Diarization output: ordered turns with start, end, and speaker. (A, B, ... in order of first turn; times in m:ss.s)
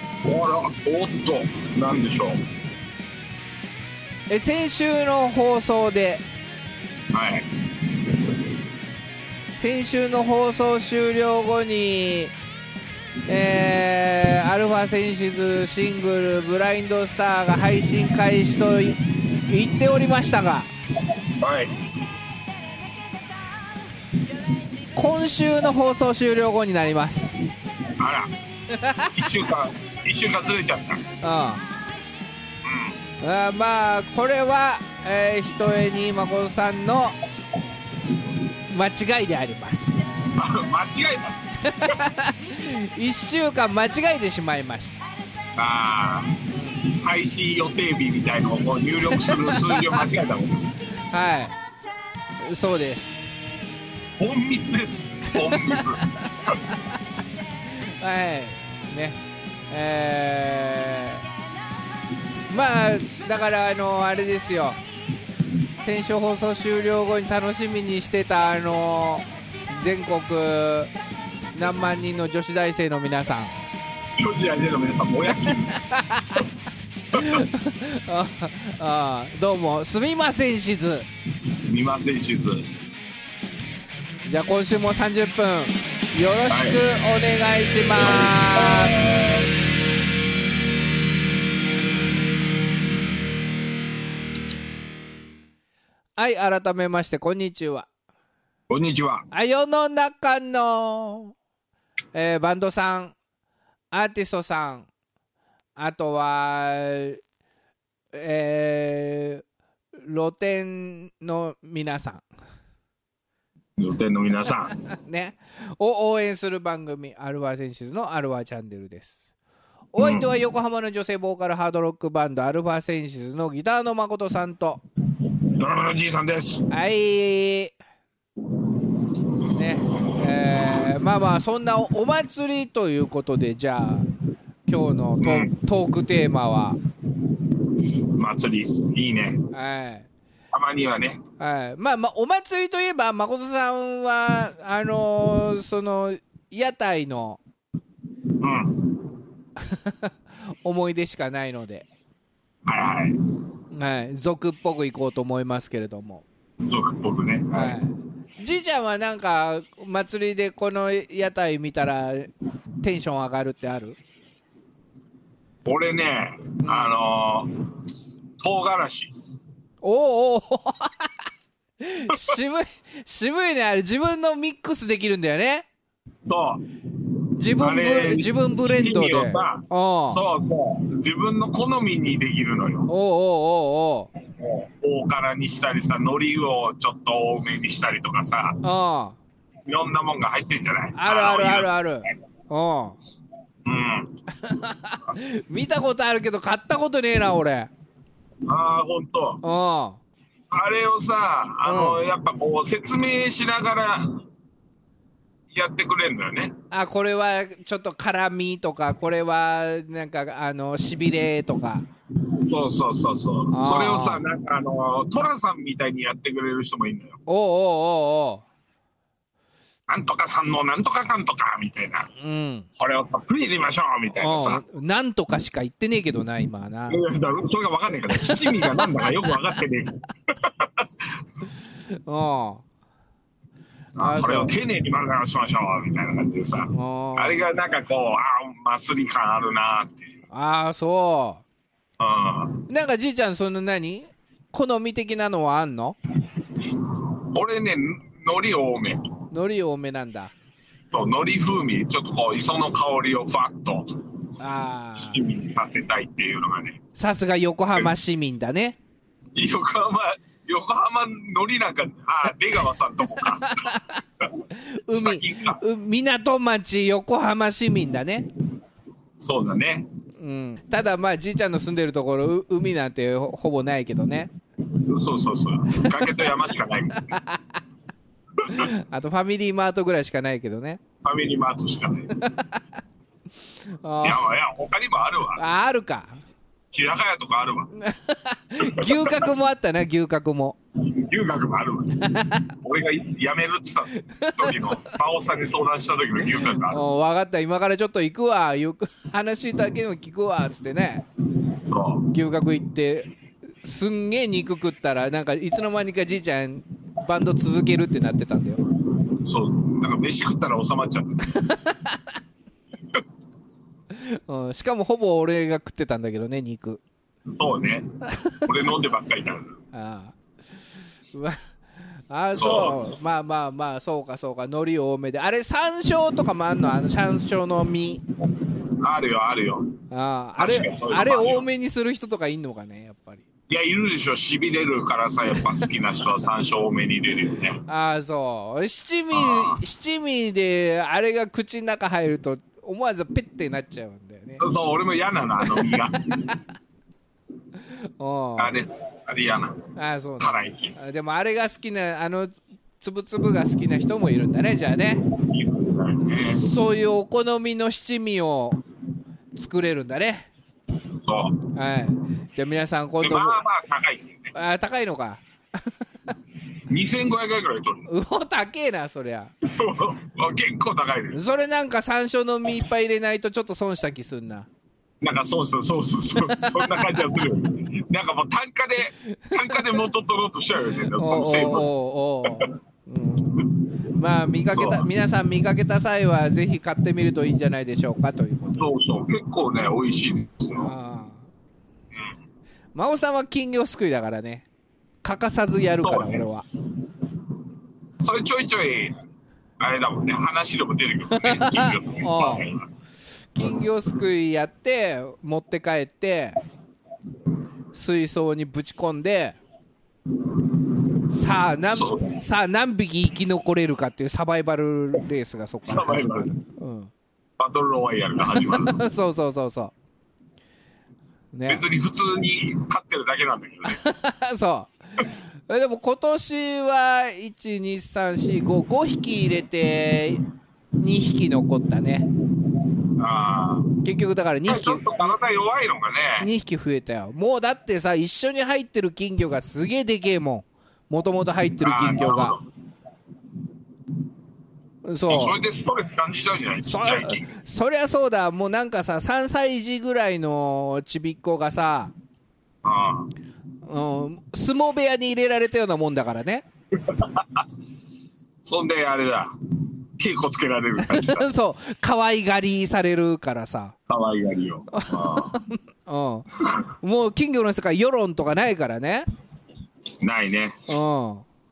0:00.2-0:02.4 A
0:04.3-0:06.2 B
0:07.1-0:07.5 A
0:09.6-0:12.3 B
0:13.3-0:20.7 B
0:21.2-0:21.7 A
0:25.0-0:27.4 B
0:28.0-0:28.3 A
0:28.7-0:29.3 B
0:29.1-0:31.0 A
0:31.2-0:31.6 B
0:32.6-0:33.0 A
0:33.2-0:37.2 B
0:38.7-0:40.0 B
0:40.2-0:41.4 A
0:41.6-0:45.0 B
0:45.6-0:50.7 A
0:46.5-0:46.8 B
0:49.2-0:49.9 B
0:51.1-0:51.5 B
0:52.4-0:53.2 B
0:54.2-0:56.5 A
0:57.8-0:59.2 B
0:59.7-1:01.2 B
1:02.5-1:04.8 B
1:05.8-1:10.9 B
1:11.5-1:13.5 B
1:14.2-1:15.7 A
1:15.8-1:16.4 B
1:17.1-1:21.1 B
1:17.1-1:17.4 A
1:21.6-1:22.7 A
1:24.2-1:29.1 B
1:26.5-1:26.8 A
1:27.9-1:29.5 A
1:36.2-1:37.9 B
1:38.7-1:39.3 A
1:39.3-1:41.3 B
1:42.1-1:43.1 B
1:43.9-1:44.9 B
1:45.8-1:47.2 B
1:48.1-1:49.4 B
1:50.0-1:52.2 B
1:53.8-1:54.7 A
1:54.8-1:59.2 B
1:59.9-2:04.8 B
2:00.0-2:00.3 A
2:05.4-2:06.6 A
2:06.7-2:07.8 B
2:09.5-2:14.1 B
2:14.7-2:16.8 B
2:15.2-2:15.5 A
2:18.2-2:19.4 A
2:19.5-2:20.1 B
2:20.5-2:21.2 A
2:21.4-2:27.4 B
2:28.4-2:28.9 A
2:29.6-2:31.8 B
2:32.6-2:33.2 A
2:33.7-2:36.2 B
2:36.6-2:37.8 A
2:37.5-2:42.3 B
2:42.8-2:44.0 B
2:45.6-2:47.5 A
2:46.6-2:46.9 B
2:48.4-2:49.1 A
2:49.8-2:51.1 B
2:51.8-2:55.7 B
2:56.2-2:56.6 A
2:57.4-3:00.2 B
2:57.6-3:02.9 A
3:02.9-3:04.1 B
3:04.4-3:08.6 A
3:08.6-3:09.2 B
3:09.6-3:11.7 A
3:10.9-3:13.0 B
3:13.6-3:14.1 A
3:14.4-3:17.7 B
3:18.5-3:19.4 A
3:19.4-3:20.0 B
3:20.5-3:24.2 A
3:21.6-3:22.1 B
3:25.5-3:26.5 A
3:26.7-3:31.8 B
3:32.4-3:37.2 A
3:33.5-3:34.2 B
3:37.3-3:38.4 B
3:39.9-3:42.1 A
3:42.2-3:42.7 B
3:42.8-3:44.6 A
3:44.2-3:47.0 B
3:46.9-3:51.2 A
3:48.2-3:49.1 B
3:52.0-3:52.6 B
3:54.0-4:00.1 A
3:54.0-3:54.6 B
3:56.7-3:57.4 B
4:00.3-4:01.4 B
4:02.0-4:02.6 A
4:02.7-4:06.0 B
4:06.9-4:09.0 A
4:09.3-4:10.3 B
4:10.9-4:13.9 A
4:14.4-4:15.2 B
4:15.0-4:16.8 A
4:17.0-4:18.8 B
4:19.3-4:23.7 A
4:23.3-4:24.0 B
4:24.5-4:28.3 B
4:24.9-4:25.6 A
4:29.2-4:29.9 A
4:30.2-4:34.3 B
4:34.8-4:37.2 A
4:35.7-4:36.3 B
4:37.1-4:37.6 B
4:38.4-4:38.7 A
4:38.5-4:40.8 B
4:41.0-4:42.1 A
4:43.7-4:44.3 B
4:44.0-4:45.4 A
4:45.4-4:46.2 B
4:46.7-4:47.7 A
4:47.8-4:50.6 B
4:48.6-4:49.3 A
4:50.8-4:52.0 A
4:52.0-4:52.5 B
4:52.6-4:56.8 A
4:54.0-4:54.7 B
4:56.7-5:01.0 B
5:01.6-5:02.1 A
5:02.1-5:03.1 B
5:03.6-5:08.6 B
5:09.1-5:11.2 A
5:11.3-5:12.0 B
5:13.9-5:16.8 B
5:17.3-5:17.9 A
5:18.1-5:18.4 B
5:18.4-5:19.5 A
5:19.7-5:20.2 B
5:21.1-5:28.0 B
5:22.3-5:22.8 A
5:28.8-5:29.8 A
5:29.9-5:33.2 B
5:30.4-5:31.4 A
5:33.5-5:37.6 A
5:37.7-5:44.4 B
5:39.1-5:39.6 A
5:44.4-5:46.0 A
5:48.0-5:48.5 B
5:48.4-5:49.6 A
5:49.8-5:55.0 B
5:50.2-5:50.7 A
5:55.1-5:56.4 A
5:56.2-5:58.6 B
5:59.4-6:00.3 B
6:01.0-6:01.4 A
6:01.5-6:03.4 B
6:03.0-6:04.3 A
6:04.3-6:05.2 B
6:06.7-6:07.8 A
6:07.9-6:09.3 B
6:09.4-6:11.2 A
6:11.1-6:14.5 B
6:15.0-6:21.7 A
6:16.2-6:17.0 B
6:19.3-6:19.6 B
6:21.0-6:28.6 B
6:24.5-6:24.8 A
6:28.6-6:30.7 A
6:30.6-6:31.3 B
6:32.7-6:34.4 B
6:35.0-6:36.4 B
6:35.8-6:36.2 A
6:38.0-6:38.9 A
6:39.6-6:42.7 A
6:41.1-6:42.4 B
6:43.3-6:46.4 B
6:47.7-6:49.4 B
6:51.1-6:56.9 B
6:51.7-6:52.2 A
6:55.6-6:56.3 A
6:57.4-6:58.8 A
6:58.3-6:59.7 B
7:01.3-7:01.6 B
7:01.5-7:03.8 A
7:03.6-7:04.7 B
7:05.5-7:10.2 B
7:10.8-7:12.1 B
7:13.0-7:13.7 A
7:13.8-7:15.2 B
7:14.5-7:16.3 A
7:16.2-7:22.4 B
7:21.6-7:22.4 A
7:24.8-7:25.4 B
7:25.1-7:27.3 A
7:26.6-7:31.9 B
7:32.6-7:33.1 A
7:33.6-7:36.4 B
7:36.8-7:37.4 A
7:38.4-7:39.3 A
7:40.0-7:41.2 A
7:40.8-7:43.7 B
7:43.9-7:45.4 A
7:44.7-7:46.3 B
7:46.8-7:49.0 B
7:50.0-7:50.6 A
7:50.7-7:51.2 B